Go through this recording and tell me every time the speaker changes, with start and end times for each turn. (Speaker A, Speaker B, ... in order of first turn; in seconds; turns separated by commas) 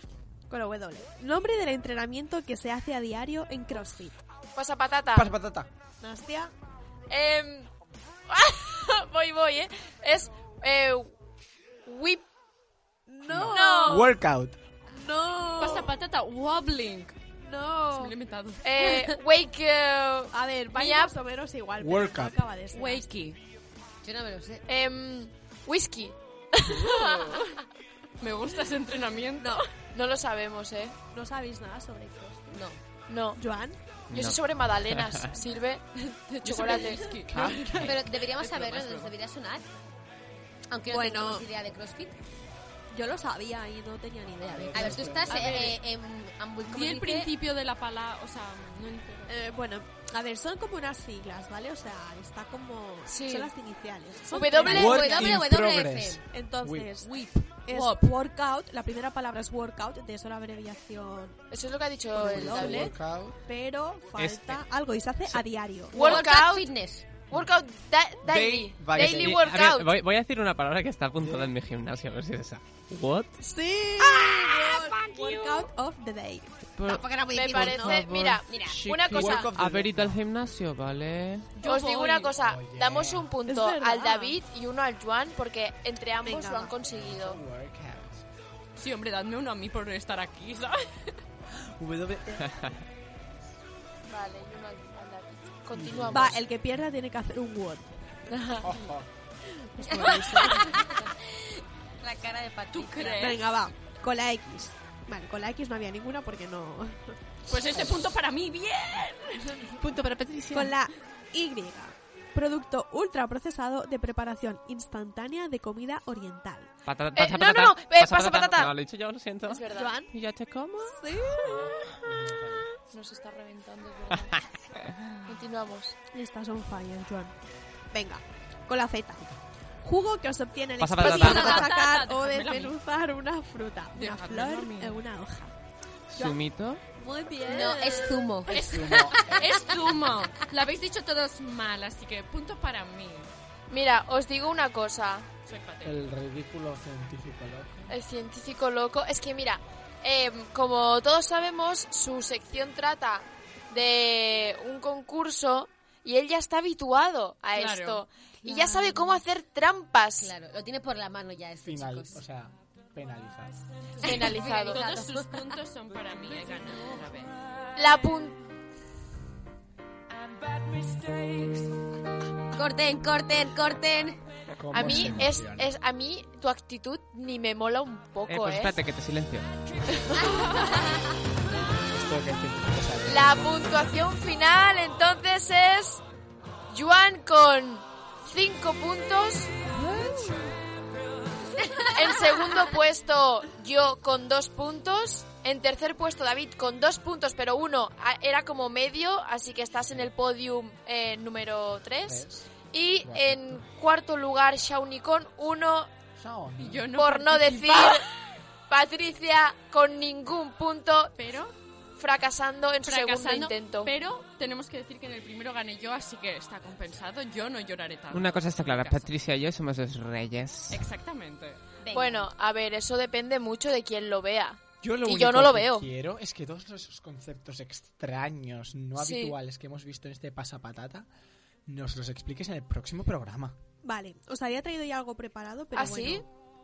Speaker A: 0.5-4.2, Speaker B: 4.5-5.3, Speaker C: 5.1-5.7, Speaker A: 6.0-6.5, Speaker B: 7.1-7.7, Speaker B: 8.3-11.1, Speaker B: 11.8-12.2, Speaker A: 13.1-14.1, Speaker C: 13.2-14.6, Speaker B: 13.5-14.1, Speaker A: 14.9-15.9, Speaker D: 15.6-17.1, Speaker A: 17.4-18.1, Speaker D: 17.9-18.9, Speaker B: 18.6-21.1, Speaker A: 20.3-23.1, Speaker C: 21.8-22.4, Speaker D: 22.7-23.4, Speaker E: 24.0-24.6, Speaker B: 24.7-27.4, Speaker D: 27.0-27.6, Speaker D: 28.2-29.6, Speaker A: 29.4-29.6, Speaker B: 29.9-30.9, Speaker A: 31.1-32.6, Speaker E: 32.5-32.8, Speaker B: 33.1-33.4, Speaker A: 33.4-33.8, Speaker F: 34.1-35.2, Speaker B: 34.1-37.2, Speaker D: 36.3-39.1, Speaker F: 37.3-37.8, Speaker C: 37.3-37.8, Speaker E: 37.8-39.6, Speaker E: 40.7-42.2, Speaker A: 40.9-41.4, Speaker A: 42.9-45.2, Speaker C: 44.4-45.7, Speaker E: 44.7-47.3, Speaker D: 45.3-45.8, Speaker D: 46.6-49.3, Speaker A: 49.3-55.4, Speaker B: 53.1-53.5, Speaker B: 54.3-55.3, Speaker E: 54.5-56.2, Speaker C: 54.6-57.0, Speaker A: 56.3-61.4, Speaker D: 57.7-58.1, Speaker B: 61.5-62.9, Speaker A: 62.1-62.9, Speaker C: 62.2-63.4, Speaker A: 63.5-66.1, Speaker F: 64.2-64.6, Speaker E: 65.9-67.2, Speaker B: 65.9-66.7, Speaker B: 67.3-69.9, Speaker C: 68.2-69.5, Speaker F: 68.9-73.3, Speaker C: 71.2-71.5, Speaker A: 73.4-76.5, Speaker E: 74.0-75.6, Speaker F: 76.8-81.5, Speaker E: 76.8-78.9, Speaker B: 77.3-79.5, Speaker A: 77.5-78.0, Speaker C: 79.0-80.2, Speaker D: 81.6-82.3, Speaker B: 81.6-87.4, Speaker C: 82.4-83.3, Speaker A: 83.5-84.4, Speaker A: 86.2-86.7, Speaker C: 86.8-88.2, Speaker D: 88.8-91.2, Speaker C: 91.6-92.6, Speaker B: 94.1-96.4, Speaker C: 95.7-96.4, Speaker A: 96.1-98.0, Speaker B: 98.3-98.7, Speaker C: 98.6-99.1, Speaker A: 99.5-100.8, Speaker E: 99.9-103.4, Speaker D: 102.7-103.4, Speaker A: 103.2-107.8, Speaker D: 107.5-109.7, Speaker F: 109.8-110.7, Speaker A: 110.5-116.7, Speaker F: 116.8-121.0, Speaker B: 117.1-118.7, Speaker B: 119.5-120.0, Speaker A: 119.7-120.1, Speaker A: 120.8-121.6, Speaker C: 121.4-122.7, Speaker B: 122.9-124.3, Speaker F: 124.3-125.2, Speaker B: 125.2-126.0, Speaker A: 126.1-127.3, Speaker A: 127.9-129.2, Speaker A: 129.8-135.5, Speaker F: 130.8-131.7, Speaker D: 131.0-132.8, Speaker D: 133.9-135.0, Speaker F: 136.1-136.8, Speaker A: 137.0-138.2, Speaker E: 137.4-139.8, Speaker D: 138.5-143.3, Speaker C: 138.6-139.5, Speaker B: 143.7-145.3, Speaker D: 145.4-146.0, Speaker C: 145.8-147.9, Speaker B: 147.9-160.3, Speaker D: 157.5-158.0, Speaker E: 160.2-162.2, Speaker C: 161.6-163.6, Speaker E: 164.0-165.5, Speaker B: 164.0-164.8, Speaker D: 164.3-167.3, Speaker B: 167.8-168.4, Speaker E: 172.5-174.2, Speaker C: 174.6-175.7, Speaker B: 174.7-178.8, Speaker F: 178.2-179.5, Speaker B: 180.0-180.7, Speaker E: 180.2-181.0, Speaker C: 181.6-183.8, Speaker B: 183.1-186.0, Speaker B: 186.7-189.5, Speaker E: 191.6-191.9, Speaker B: 191.9-205.9, Speaker C: 202.0-202.5, Speaker C: 203.0-203.6, Speaker C: 206.2-206.9, Speaker D: 206.6-208.1, Speaker B: 206.9-208.1, Speaker B: 208.7-211.1, Speaker D: 211.2-211.5, Speaker B: 212.0-213.9, Speaker D: 212.8-219.1, Speaker F: 218.1-220.9, Speaker D: 220.7-221.6, Speaker E: 221.8-222.3, Speaker B: 221.9-225.9, Speaker C: 224.8-231.1, Speaker B: 229.0-229.3, Speaker C: 231.7-233.6, Speaker A: 233.8-236.2, Speaker B: 235.7-236.2